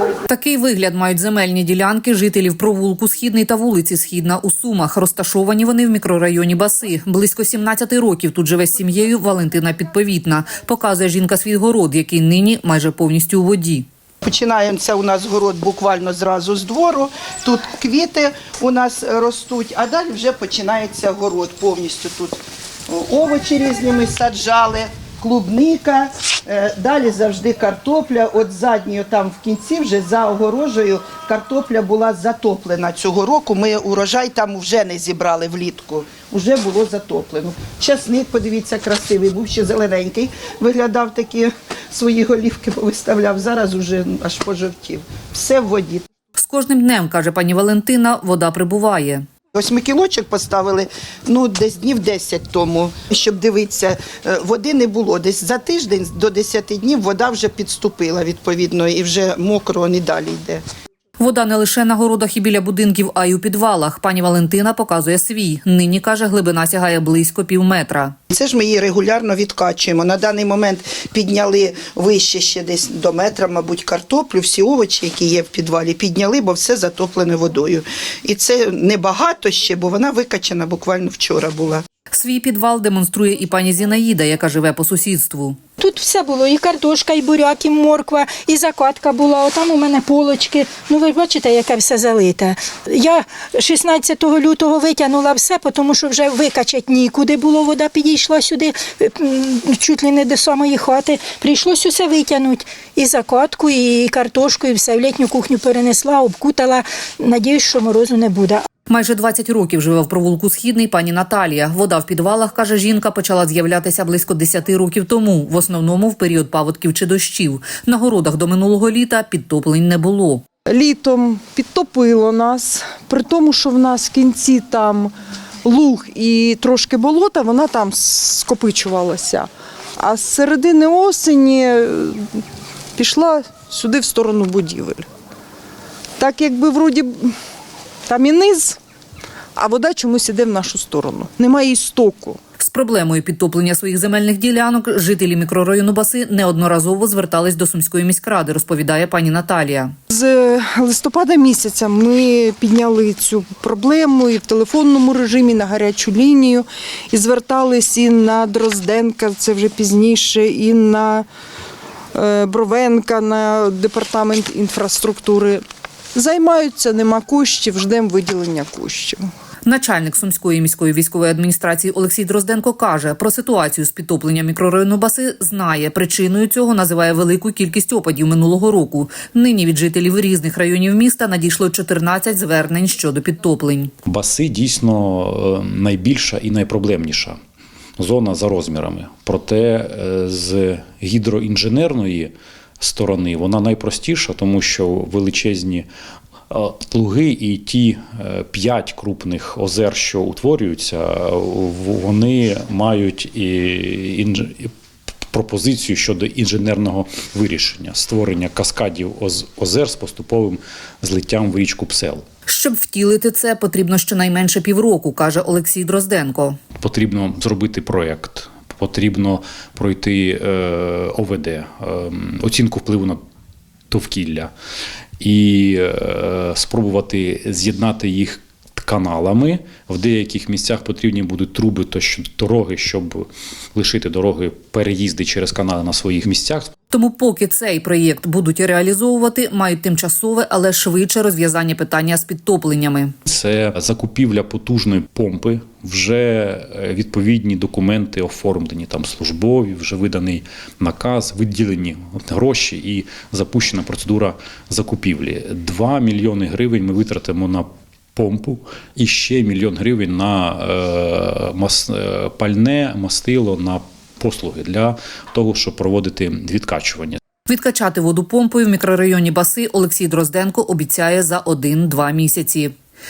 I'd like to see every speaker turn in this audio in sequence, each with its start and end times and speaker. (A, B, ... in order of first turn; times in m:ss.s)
0:00.2-0:13.8 A
0:14.2-0:22.3 B
0:22.9-0:46.0 B
0:46.4-0:49.2 A
0:49.5-1:00.6 B
1:01.2-1:08.1 A
1:08.3-1:21.8 B
1:22.1-1:25.6 A
1:25.8-1:48.6 C
1:48.9-2:00.4 A
2:00.7-2:05.1 D
2:05.6-2:12.4 D
2:13.0-2:15.0 D
2:16.2-2:17.4 D
2:18.0-2:18.8 D
2:19.6-2:22.4 D
2:22.6-2:29.9 A
2:30.1-2:41.3 D
2:42.1-2:45.6 D
2:46.1-2:49.2 D
2:49.6-3:03.9 A
3:04.0-3:07.4 E
3:08.0-3:15.9 E
3:16.5-3:24.7 E
3:25.3-3:32.2 E
3:32.5-3:36.6 A
3:36.8-3:43.2 E
3:43.9-3:44.5 E
3:45.2-3:56.7 E
3:56.9-4:03.1 A
4:03.2-4:27.2 E
4:27.5-4:32.7 A